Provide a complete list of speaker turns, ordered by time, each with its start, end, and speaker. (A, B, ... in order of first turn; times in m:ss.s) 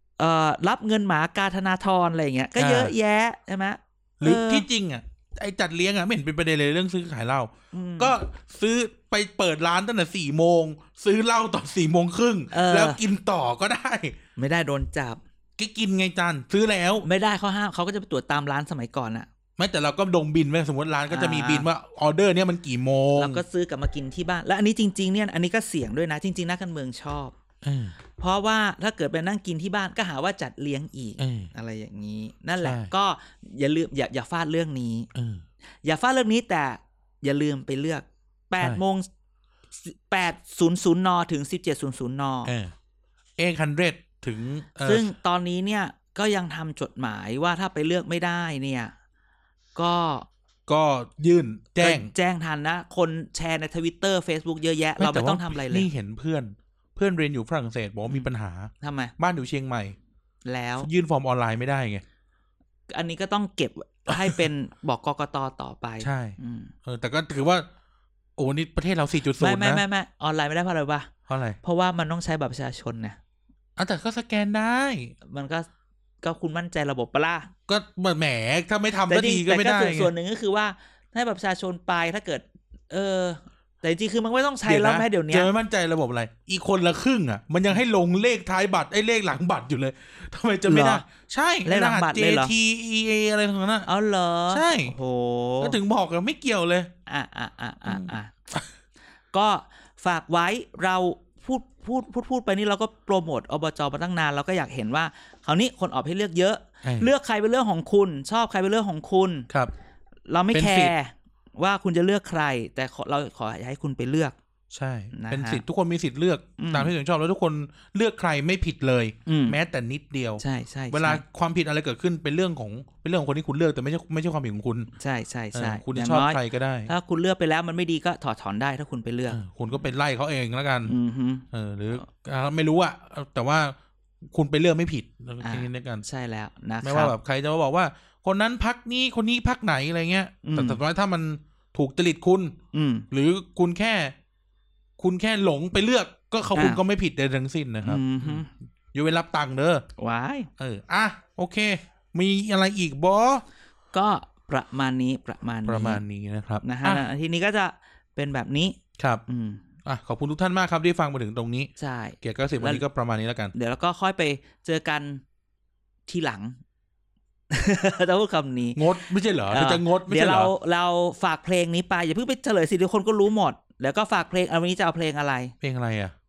0:00.2-0:04.6 A
0:02.6-0:02.9 B
0:04.2-0:14.2 B
0:07.7-0:08.2 A
0:12.5-0:13.0 A
0:14.4-0:15.2 A
0:15.6-0:17.1 B
0:17.0-0:19.3 A
0:19.6-0:23.4 B
0:21.1-0:21.6 A
0:23.1-0:27.3 A
0:27.6-0:28.0 B
0:28.2-0:35.1 A
0:31.2-0:31.5 B
0:32.6-0:32.9 B
0:35.1-0:35.4 B
0:35.8-0:39.1 A
0:39.8-0:42.5 A
0:42.4-0:42.7 B
0:43.4-0:45.1 B
0:44.8-0:48.9 A
0:49.7-0:50.3 A
0:50.7-0:52.1 B
0:51.8-0:55.9 A
0:55.0-1:00.0 B
0:58.8-0:59.1 A
1:00.4-1:00.9 A
1:00.8-1:02.0 B
1:02.9-1:06.7 A
1:04.1-1:04.4 B
1:06.0-1:07.7 B
1:08.4-1:09.8 B
1:09.4-1:11.1 A
1:11.3-1:11.6 B
1:11.6-1:13.2 A
1:13.8-1:15.1 B
1:15.2-1:15.7 A
1:16.2-1:17.5 A
1:17.7-1:20.1 B
1:19.1-1:25.5 A
1:24.6-1:33.9 B
1:30.6-1:31.0 A
1:31.6-1:32.5 A
1:33.9-1:35.8 A
1:34.5-1:34.9 B
1:35.6-1:36.9 B
1:37.1-1:38.3 A
1:37.9-1:38.6 B
1:39.3-1:49.5 A
1:46.8-1:47.1 B
1:50.3-1:54.3 A
1:50.5-1:50.9 B
1:54.7-2:04.9 B
1:55.1-1:55.6 A
1:56.6-1:56.9 A
1:59.3-1:59.6 A
2:00.4-2:01.2 A
2:05.0-2:09.8 A
2:05.5-2:06.9 B
2:09.3-2:10.9 B
2:10.8-2:11.4 A
2:11.5-2:13.8 B
2:14.3-2:16.0 B
2:15.4-2:17.1 A
2:16.8-2:22.6 B
2:20.4-2:20.8 A
2:22.7-2:23.1 A
2:23.1-2:24.1 B
2:25.0-2:29.8 B
2:26.5-2:26.8 A
2:27.8-2:28.5 A
2:30.0-2:30.5 A
2:30.6-2:33.4 B
2:33.9-2:36.0 A
2:35.6-2:37.0 B
2:36.6-2:39.6 A
2:39.8-2:41.7 B
2:41.8-2:42.8 A
2:42.2-2:43.5 B
2:43.5-2:45.2 A
2:46.1-2:46.6 A
2:47.5-2:48.8 A
2:48.8-2:50.5 B
2:49.5-2:55.5 A
2:55.6-2:56.1 B